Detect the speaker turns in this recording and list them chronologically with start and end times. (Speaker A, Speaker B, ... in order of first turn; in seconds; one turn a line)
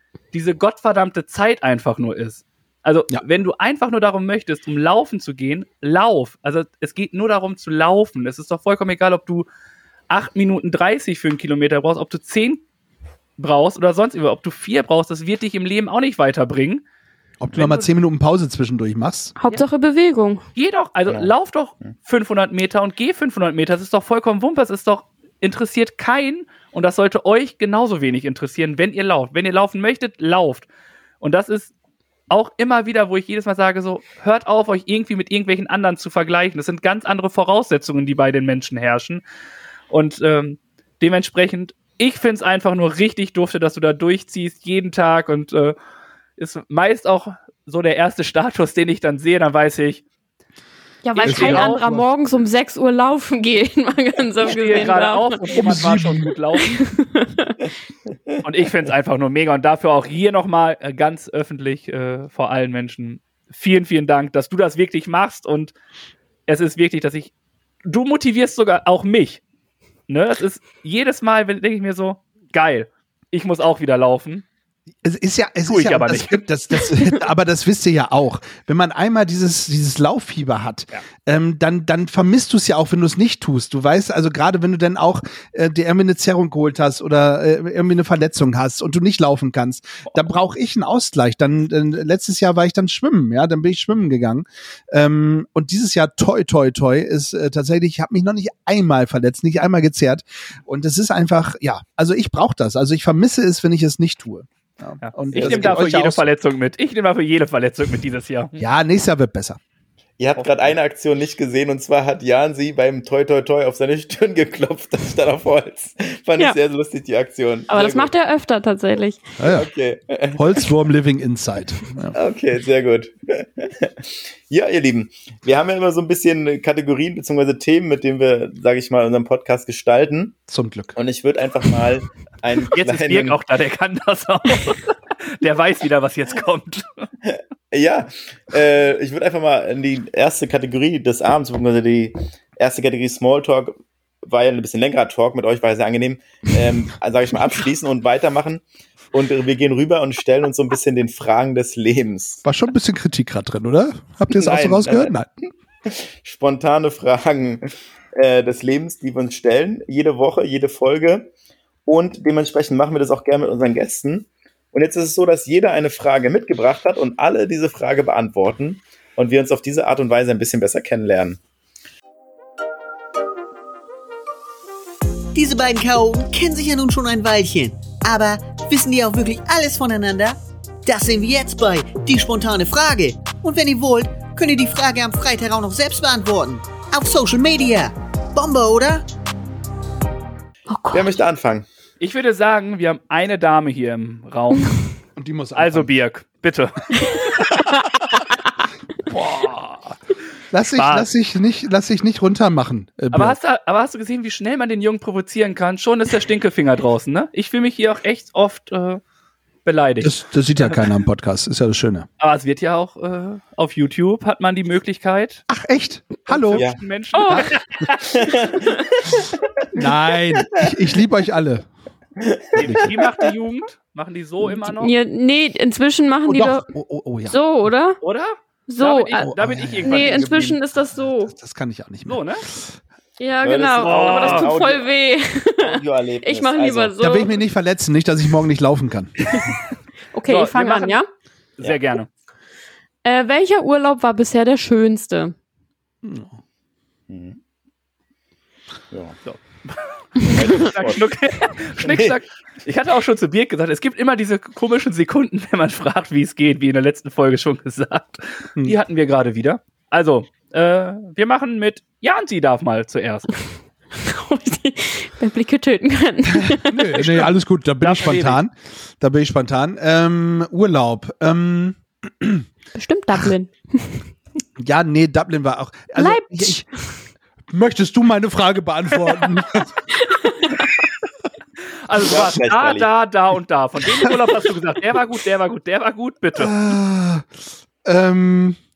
Speaker A: 0.3-9.5
Speaker A: 10.1-12.6
Speaker A: 13.4-16.8
Speaker B: 17.4-19.4
Speaker A: 17.5-17.9
Speaker C: 19.4-20.4
Speaker A: 20.6-30.7
Speaker A: 31.2-31.7
Speaker A: 32.3-39.2
Speaker A: 39.9-45.8
Speaker A: 46.4-50.0
Speaker C: 51.0-55.4
Speaker A: 51.2-51.8
Speaker B: 51.2-52.1
Speaker A: 54.4-56.9
Speaker B: 55.5-56.4
Speaker C: 56.8-57.6
Speaker A: 58.4-65.7
Speaker A: 66.5-67.3
Speaker A: 67.8-69.4
Speaker A: 70.1-74.5
Speaker B: 75.0-106.2
Speaker A: 75.7-76.5
Speaker A: 105.0-108.6
Speaker D: 105.3-105.8
Speaker B: 108.6-109.6
Speaker D: 110.2-118.1
Speaker A: 110.4-110.8
Speaker C: 117.7-119.3
Speaker B: 119.4-119.7
Speaker D: 119.5-120.7
Speaker B: 120.4-122.2
Speaker D: 122.1-130.4
Speaker B: 130.5-130.9
Speaker D: 130.9-133.4
Speaker A: 132.7-137.1
Speaker D: 137.3-143.7
Speaker D: 144.2-152.4
Speaker B: 152.4-155.3
Speaker D: 154.3-155.1
Speaker D: 155.9-161.3
Speaker D: 161.9-171.4
Speaker E: 175.3-189.0
Speaker C: 190.7-191.1
Speaker D: 190.9-191.7
Speaker A: 192.0-194.9
Speaker B: 195.2-195.9
Speaker A: 195.6-197.6
Speaker B: 199.1-199.9
Speaker A: 199.1-199.6
Speaker B: 200.5-203.4
Speaker A: 200.7-201.1
Speaker A: 203.1-209.0
Speaker A: 209.7-210.8
Speaker B: 210.0-212.1
Speaker A: 212.2-215.4
Speaker B: 215.5-216.7
Speaker A: 216.3-218.5
Speaker D: 216.6-216.8
Speaker C: 217.2-217.5
Speaker B: 217.3-217.9
Speaker D: 218.0-220.7
Speaker B: 219.7-221.7
Speaker D: 222.2-223.1
Speaker A: 222.6-224.9
Speaker B: 222.6-222.9
Speaker C: 224.6-226.7
Speaker B: 226.3-227.4
Speaker C: 227.3-228.0
Speaker A: 228.0-230.6
Speaker C: 228.7-229.3
Speaker B: 229.2-230.6
Speaker C: 229.8-231.3
Speaker B: 231.3-232.7
Speaker A: 232.1-232.4
Speaker C: 233.2-237.3
Speaker D: 233.4-234.9
Speaker A: 233.8-234.5
Speaker D: 235.6-237.0
Speaker B: 237.0-239.1
Speaker C: 240.1-241.1
Speaker A: 240.3-241.0
Speaker A: 241.6-242.1
Speaker C: 243.0-245.3
Speaker B: 246.0-246.4
Speaker D: 247.1-247.4
Speaker D: 248.9-249.2
Speaker A: 249.2-263.4
Speaker D: 250.2-251.2
Speaker D: 251.8-252.2
Speaker C: 263.9-267.1
Speaker B: 266.4-272.4
Speaker A: 267.0-267.3
Speaker A: 267.8-268.4
Speaker C: 272.8-274.0
Speaker B: 274.6-276.7
Speaker C: 276.0-276.9
Speaker B: 277.5-279.7
Speaker C: 280.0-280.7
Speaker A: 281.9-286.6
Speaker D: 282.0-282.9
Speaker B: 286.4-287.3
Speaker B: 287.9-288.6